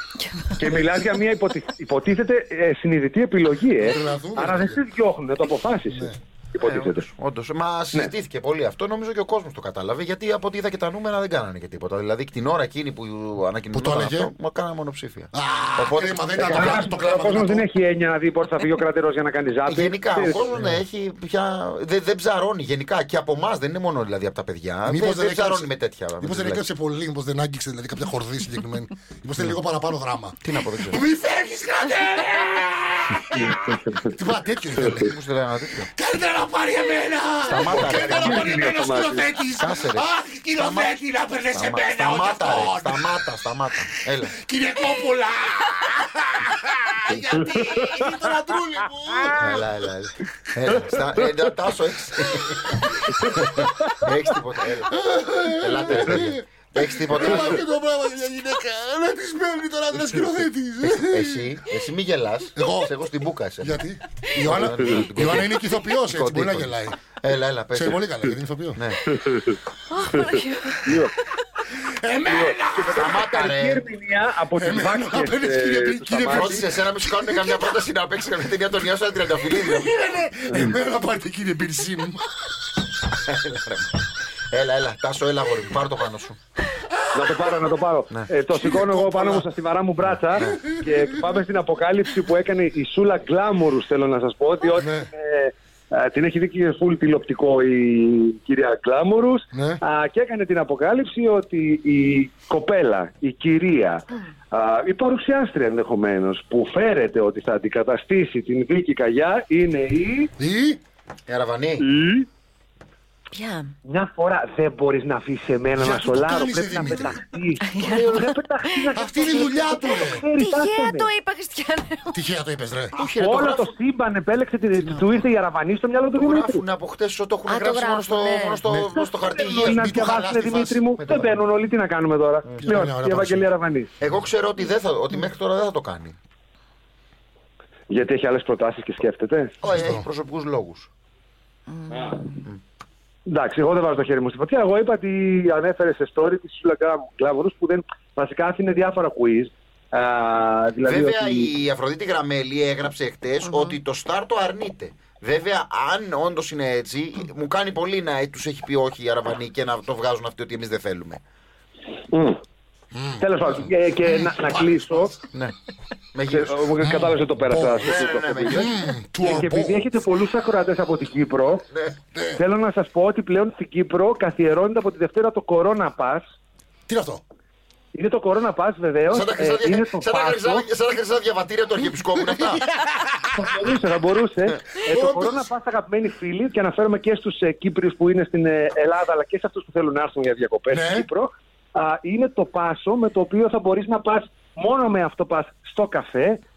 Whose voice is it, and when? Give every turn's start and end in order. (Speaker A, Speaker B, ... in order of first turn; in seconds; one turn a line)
Speaker A: 0.6-7.0
Speaker B: 3.8-4.8
Speaker B: 5.9-6.2
Speaker C: 6.6-16.9
Speaker B: 13.7-14.3
Speaker B: 15.3-17.6
Speaker A: 16.4-20.5
Speaker C: 19.7-26.6
Speaker B: 20.5-20.8
Speaker B: 24.9-35.1
Speaker C: 30.4-31.0
Speaker A: 33.4-34.2
Speaker C: 34.8-35.9
Speaker B: 35.9-43.2
Speaker C: 37.5-38.7
Speaker A: 38.2-39.3
Speaker C: 39.6-40.9
Speaker C: 41.5-44.4
Speaker B: 44.2-49.7
Speaker A: 47.3-48.3
Speaker C: 49.3-55.0
Speaker B: 52.5-53.8
Speaker B: 54.8-61.6
Speaker C: 55.5-57.6
Speaker C: 60.8-63.8
Speaker B: 62.5-62.9
Speaker B: 63.6-67.0
Speaker C: 64.3-68.0
Speaker B: 67.7-68.8
Speaker C: 68.8-69.0
Speaker A: 69.1-69.5
Speaker D: 69.9-70.9
Speaker A: 70.8-71.1
Speaker B: 71.8-73.5
Speaker A: 72.3-76.6
Speaker C: 73.0-73.8
Speaker B: 74.5-77.6
Speaker C: 76.2-80.0
Speaker B: 79.4-82.3
Speaker A: 80.5-80.8
Speaker C: 83.3-83.9
Speaker C: 84.5-86.4
Speaker A: 87.2-110.3
Speaker C: 88.1-88.9
Speaker B: 88.5-89.5
Speaker B: 90.4-90.8
Speaker B: 94.8-95.1
Speaker B: 99.5-99.8
Speaker B: 110.4-110.8
Speaker C: 111.3-111.8
Speaker A: 111.8-112.3
Speaker D: 113.3-113.7
Speaker A: 113.9-121.1
Speaker B: 115.8-117.2
Speaker D: 117.7-122.2
Speaker C: 117.8-118.3
Speaker B: 118.9-120.2
Speaker B: 122.1-122.9
Speaker C: 123.0-123.8
Speaker A: 123.2-126.6
Speaker D: 124.9-125.2
Speaker C: 126.1-130.1
Speaker D: 127.5-128.7
Speaker A: 128.8-133.9
Speaker B: 129.5-130.9
Speaker C: 131.0-131.4
Speaker B: 132.6-133.5
Speaker C: 134.0-136.2
Speaker A: 137.9-139.5
Speaker C: 139.6-140.9
Speaker B: 139.7-140.1
Speaker A: 141.9-142.3
Speaker A: 143.3-151.5
Speaker C: 150.8-161.2
Speaker D: 153.4-153.8
Speaker A: 162.1-162.4
Speaker B: 162.9-163.2
Speaker A: 163.2-165.1
Speaker B: 164.0-165.1
Speaker C: 166.2-166.6
Speaker A: 166.3-168.6
Speaker B: 166.8-169.8
Speaker C: 167.8-168.8
Speaker A: 169.2-171.6
Speaker B: 172.2-172.4
Speaker A: 172.4-176.2
Speaker B: 176.9-177.2
Speaker A: 177.9-180.7
Speaker C: 179.1-182.7
Speaker B: 182.2-182.6
Speaker A: 183.4-196.4
Speaker C: 184.5-184.8
Speaker B: 184.9-185.5
Speaker B: 190.7-191.1